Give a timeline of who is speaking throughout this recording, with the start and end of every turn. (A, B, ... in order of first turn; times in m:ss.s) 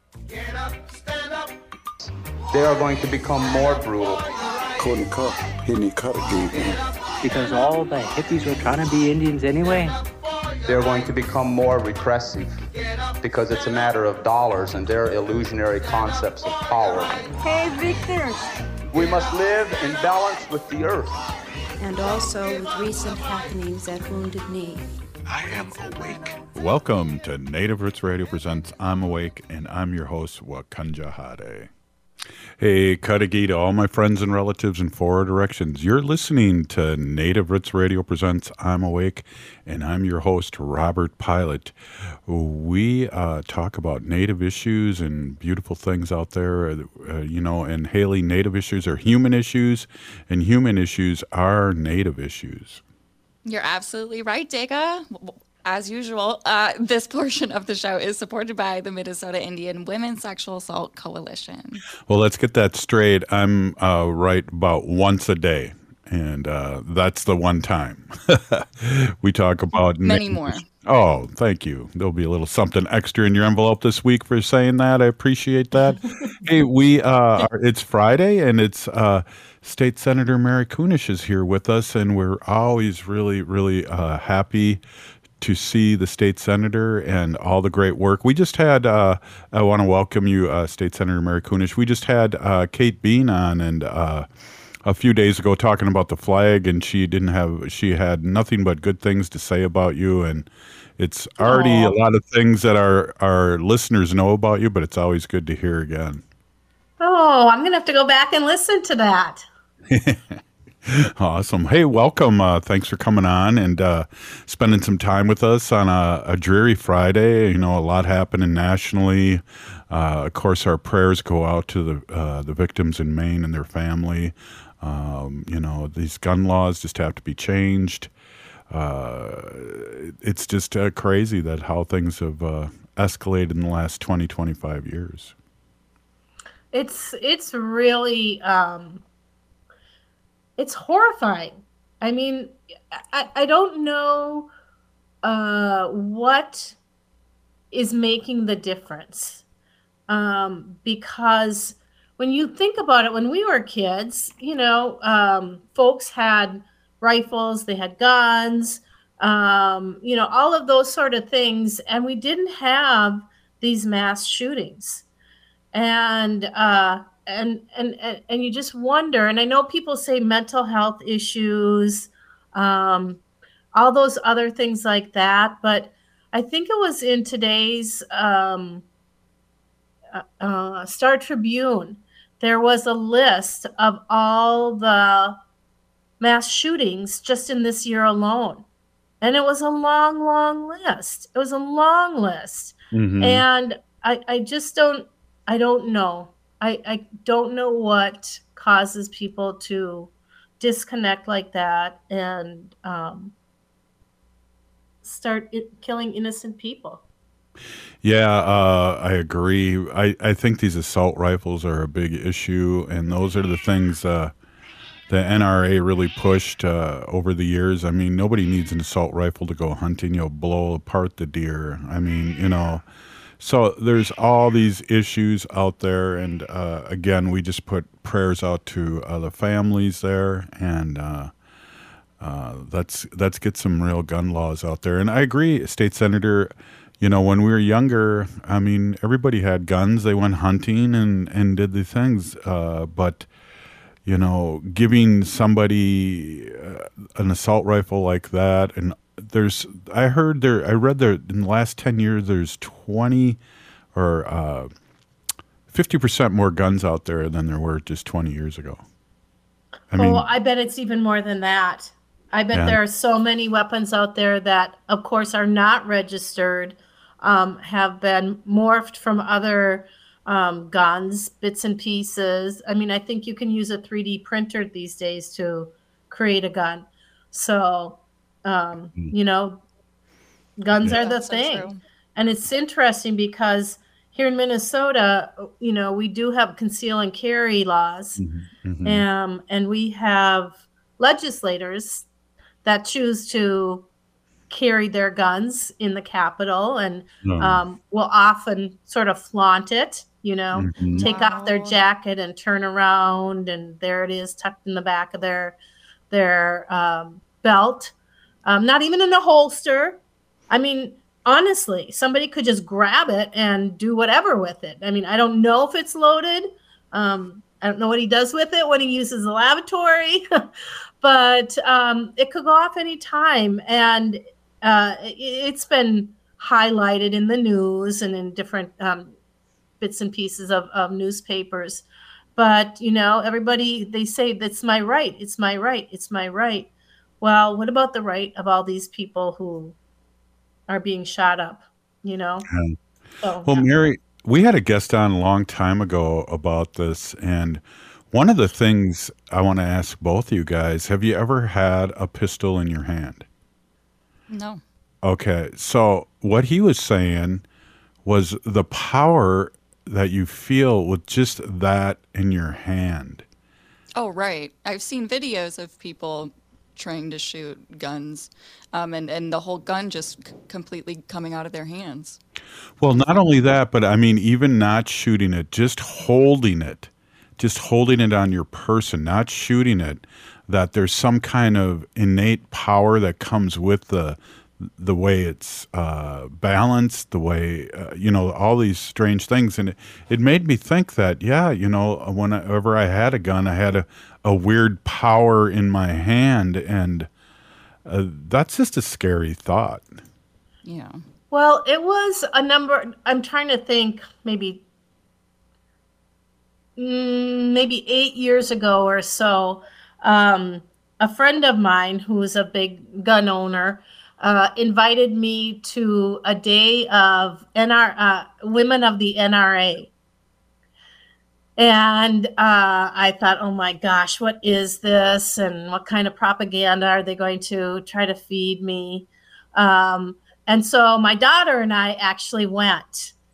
0:02.5-0:04.3 A
0:04.8-0:06.8 B
0:07.2-0:10.0 C
0:10.6-0:12.6 A
0:13.2-0:17.3 A
0:17.4-0:18.5 C
0:18.9-0:21.2 A
0:21.8-0:24.9 D
0:25.2-0:26.4 B
0:26.5-0:31.7 E
0:32.6-0:41.7 E
0:42.2-0:52.8 E
0:53.4-1:01.8 F
1:02.1-1:24.8 E
1:10.0-1:10.6 F
1:25.4-1:34.3 E
1:34.8-1:46.2 E
1:41.4-1:41.9 G
1:47.0-1:49.4 G
1:49.9-2:08.1 E
2:08.7-2:15.3 E
2:16.7-2:19.0 G
2:20.6-2:24.5 G
2:25.2-2:26.8 G
2:27.7-2:29.4 G
2:30.1-2:45.0 G
2:45.7-2:53.2 G
2:53.7-2:58.8 G
3:00.1-3:05.4 G
3:06.2-3:08.6 G
3:09.2-3:23.3 G
3:12.9-3:13.4 E
3:25.0-3:27.0 G
3:28.0-3:34.3 E
3:35.1-3:42.8 E
3:43.4-3:51.3 E
3:52.2-4:03.3 E
4:04.0-4:13.4 E
4:13.9-4:14.7 E
4:15.7-4:18.8 E
4:19.9-4:20.3 E
4:20.0-4:39.6 G
4:22.5-4:22.8 E
4:40.6-4:48.2 G
4:40.8-4:41.8 F
4:48.2-4:49.0 E
4:48.8-4:52.0 G
4:52.6-4:53.8 G
4:54.5-5:05.6 G
4:57.2-4:57.6 E
5:00.5-5:01.0 E
5:00.9-5:01.8 F
5:06.1-5:07.9 G
5:08.4-5:20.2 G
5:21.0-5:29.1 G
5:29.8-5:31.8 G
5:32.4-5:36.7 G
5:37.2-5:39.8 G
5:40.7-5:42.4 G
5:42.5-5:42.8 E
5:43.2-5:43.7 G
5:43.4-5:53.2 E
5:54.3-5:54.6 F
5:55.0-5:57.4 E
5:58.0-6:03.2 E
6:03.9-6:12.2 F
6:12.8-6:37.1 E
6:12.9-6:13.2 F
6:37.8-6:40.0 E
6:40.6-6:41.0 F
6:41.3-6:44.6 G
6:46.8-6:59.9 G
7:01.6-7:13.1 G